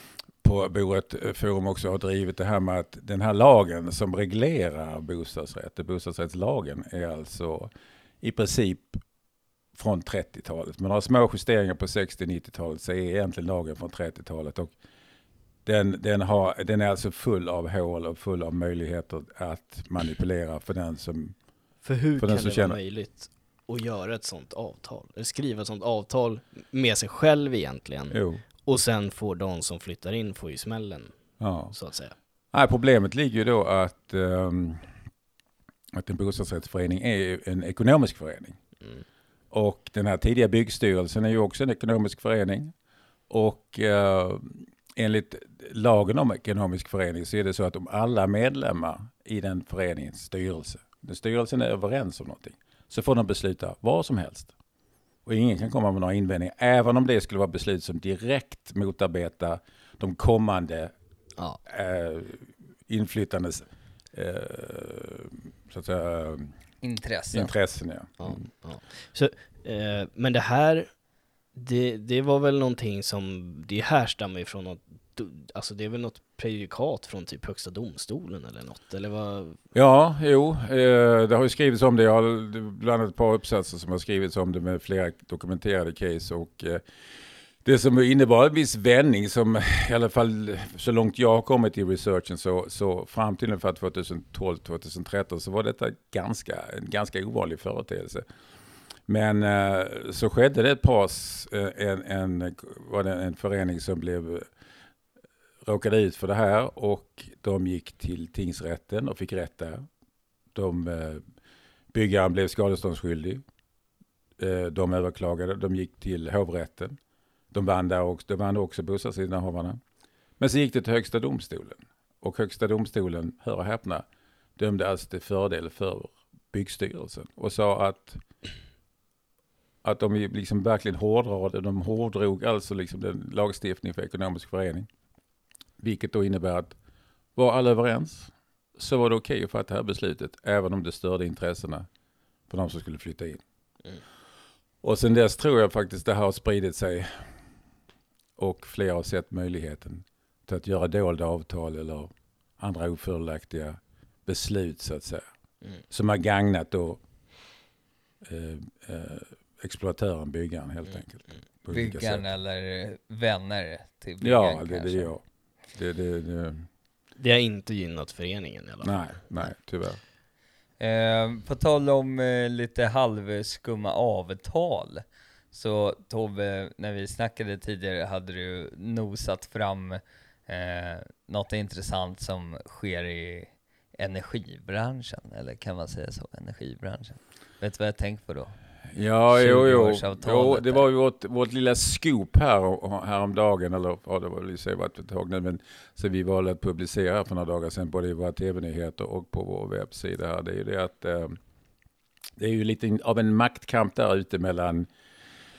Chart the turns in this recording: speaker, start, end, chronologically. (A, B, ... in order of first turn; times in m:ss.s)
0:00.4-0:09.0 A
0:09.7-0:14.7 A
0:15.7-0:21.4 A
0:21.8-0:32.2 B
0:22.2-0:22.8 A
0:28.1-0:28.4 A
0:31.4-0:31.8 A
0:32.5-0:34.9 A
0:35.9-0:38.6 A
0:38.8-0:39.0 B
0:39.5-0:42.7 A
0:43.3-0:54.5 A
0:55.3-1:00.9 A
1:01.6-1:06.6 A
1:06.8-1:07.5 C
1:07.3-1:08.4 A
1:08.2-1:11.0 B
1:11.5-1:19.6 B
1:19.7-1:26.8 A
1:27.6-1:38.2 A
1:39.1-1:44.5 A
1:45.6-1:49.9 A
1:50.5-1:51.2 A
1:51.9-1:53.4 A
1:54.4-1:57.0 A
1:57.5-1:59.8 A
2:00.4-2:04.0 A
2:04.6-2:08.2 A
2:09.8-2:14.9 A
2:15.8-2:16.8 A
2:17.4-2:21.9 A
2:22.5-2:23.4 A
2:24.8-2:27.3 A
2:28.4-2:35.3 A
2:35.9-2:37.0 A
2:38.2-2:42.3 A
2:40.9-2:41.3 B
2:41.7-2:45.1 C
2:44.2-2:46.7 A
2:47.2-2:49.5 B
2:48.8-2:50.0 A
2:50.8-3:08.6 C
3:08.9-3:21.4 A
3:09.3-3:10.9 C
3:22.4-3:24.9 A